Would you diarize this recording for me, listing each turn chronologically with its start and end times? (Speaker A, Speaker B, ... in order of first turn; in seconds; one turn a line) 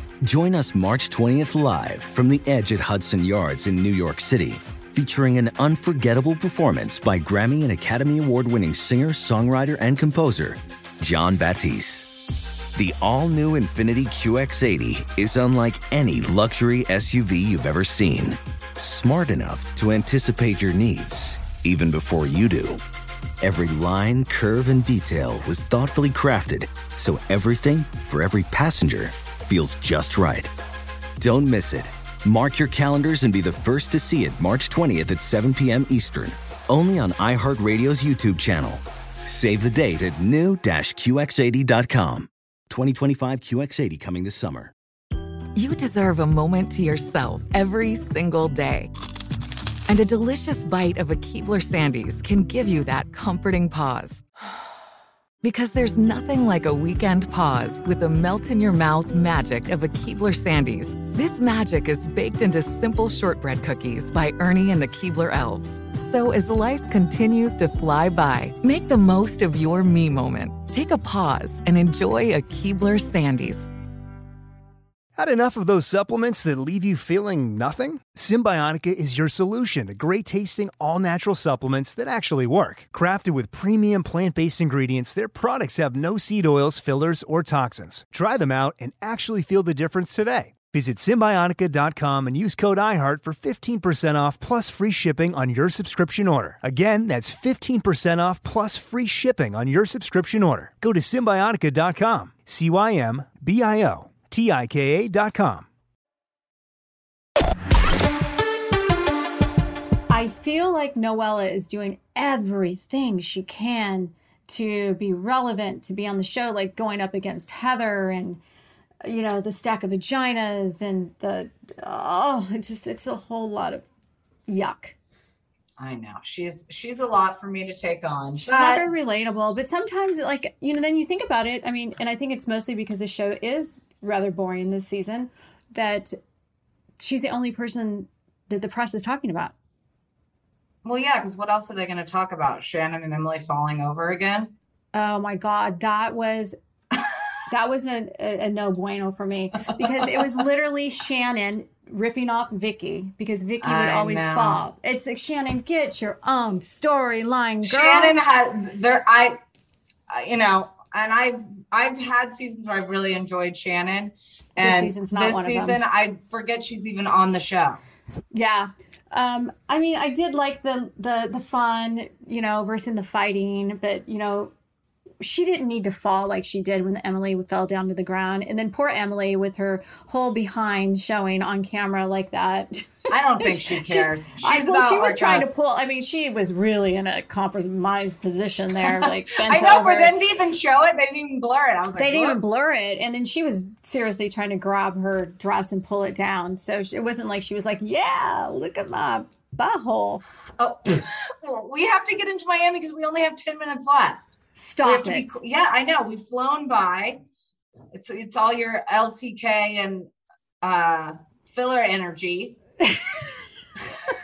Speaker A: 0.2-12.1
Speaker A: 12.7-22.8
Speaker A: 23.4-30.5
Speaker A: 31.2-44.7
Speaker B: 45.5-48.9
Speaker B: 49.9-54.2
Speaker B: 55.4-73.7
Speaker C: 75.2-105.7
Speaker D: 110.1-118.4
Speaker D: 119.0-123.8
Speaker D: 124.5-125.0
Speaker E: 125.8-128.9
Speaker D: 128.4-136.2
Speaker D: 137.0-139.5
Speaker E: 140.8-144.5
Speaker D: 144.9-146.6
Speaker D: 147.5-158.2
Speaker E: 149.8-150.4
Speaker E: 153.6-154.6
Speaker E: 157.6-159.4
Speaker E: 160.1-167.8
Speaker D: 164.6-165.8
Speaker D: 168.3-174.5
Speaker D: 175.2-190.2
Speaker E: 183.1-185.5
Speaker E: 188.8-192.4
Speaker D: 191.9-200.2
Speaker E: 200.6-207.2
Speaker D: 204.6-205.4
Speaker E: 207.9-210.1
Speaker E: 210.6-212.6
Speaker D: 212.8-213.4